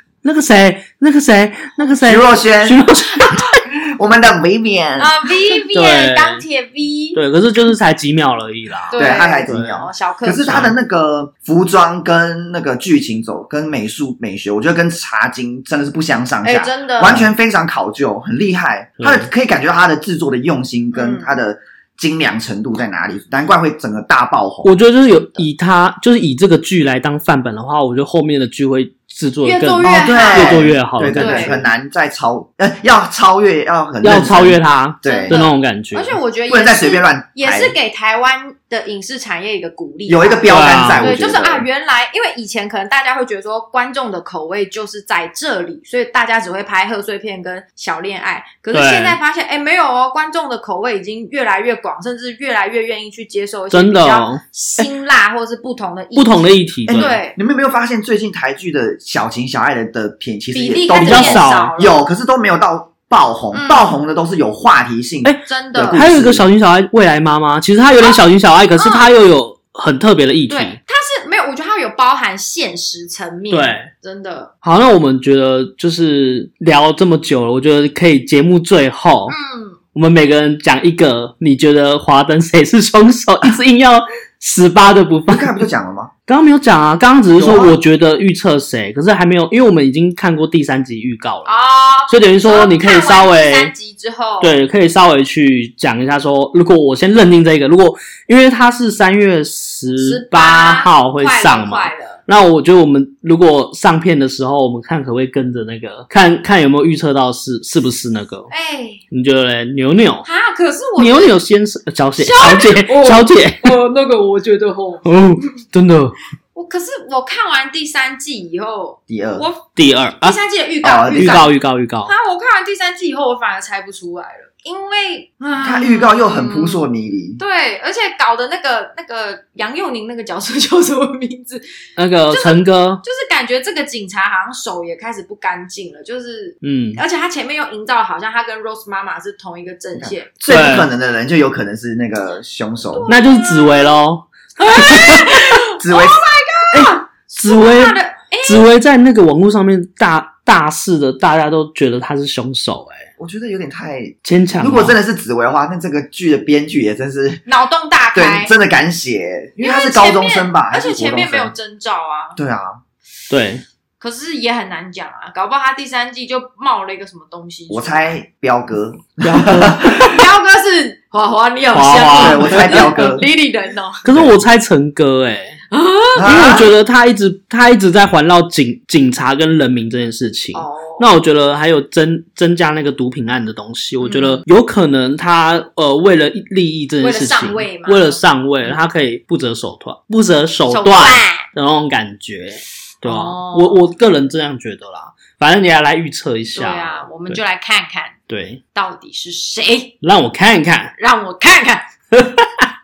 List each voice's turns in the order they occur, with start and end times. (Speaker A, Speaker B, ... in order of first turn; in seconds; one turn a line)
Speaker A: 0.2-3.6
Speaker B: 2.0-2.8
Speaker B: 3.7-5.1
Speaker C: 5.0-7.2
Speaker A: 5.7-6.4
Speaker A: 7.1-9.8
Speaker C: 8.9-10.7
Speaker B: 8.9-24.8
Speaker A: 10.5-10.7
Speaker C: 16.4-17.2
Speaker A: 19.0-19.3
Speaker C: 20.9-21.3
Speaker A: 24.6-31.7
Speaker C: 29.4-31.6
Speaker B: 29.8-35.4
Speaker A: 34.0-36.2
Speaker C: 35.0-57.4
Speaker B: 36.5-37.7
Speaker B: 40.1-41.7
Speaker A: 40.5-41.1
Speaker A: 48.7-49.2
Speaker A: 53.7-54.9
Speaker A: 56.1-57.2
Speaker B: 56.9-66.5
Speaker C: 60.5-62.0
Speaker A: 61.0-61.7
Speaker C: 63.5-63.9
Speaker A: 65.2-70.8
Speaker C: 65.5-66.0
Speaker C: 68.0-68.2
Speaker C: 68.8-69.1
Speaker C: 70.5-74.5
Speaker A: 73.5-73.9
Speaker A: 74.6-79.3
Speaker C: 79.3-79.8
Speaker A: 79.9-85.6
Speaker B: 85.3-86.1
Speaker A: 86.3-91.5
Speaker B: 87.3-87.8
Speaker C: 91.5-94.5
Speaker A: 92.1-93.7
Speaker A: 94.4-108.5
Speaker C: 100.0-102.2
Speaker C: 108.5-109.0
Speaker A: 109.1-110.3
Speaker C: 110.2-111.4
Speaker A: 111.0-113.8
Speaker C: 112.2-115.5
Speaker A: 115.0-116.1
Speaker C: 116.5-119.6
Speaker B: 119.1-119.5
Speaker A: 119.7-120.4
Speaker C: 120.2-121.5
Speaker B: 120.8-121.5
Speaker A: 121.1-122.1
Speaker C: 122.0-126.8
Speaker B: 125.6-127.4
Speaker C: 127.4-131.7
Speaker A: 132.0-133.0
Speaker C: 132.3-140.3
Speaker A: 136.6-137.0
Speaker B: 140.0-143.1
Speaker A: 140.5-140.9
Speaker C: 142.9-144.0
Speaker A: 143.1-145.5
Speaker C: 144.6-148.6
Speaker B: 145.8-146.2
Speaker A: 146.7-153.1
Speaker B: 153.2-157.4
Speaker A: 154.2-155.0
Speaker C: 157.4-158.5
Speaker B: 158.1-161.5
Speaker C: 159.6-162.4
Speaker B: 162.4-162.8
Speaker A: 163.3-163.6
Speaker C: 164.0-168.1
Speaker B: 167.7-170.2
Speaker A: 169.2-170.1
Speaker C: 170.1-174.1
Speaker A: 171.7-173.2
Speaker B: 172.1-173.2
Speaker A: 174.0-175.6
Speaker B: 174.1-174.4
Speaker C: 175.7-176.6
Speaker B: 176.1-176.7
Speaker A: 176.2-197.4
Speaker C: 180.5-181.0
Speaker C: 184.0-184.4
Speaker C: 187.0-188.8
Speaker C: 190.7-191.5
Speaker C: 193.0-193.8
Speaker C: 196.5-198.2
Speaker A: 198.3-198.6
Speaker C: 198.7-199.9
Speaker A: 200.0-200.9
Speaker C: 201.0-201.9
Speaker A: 202.1-202.7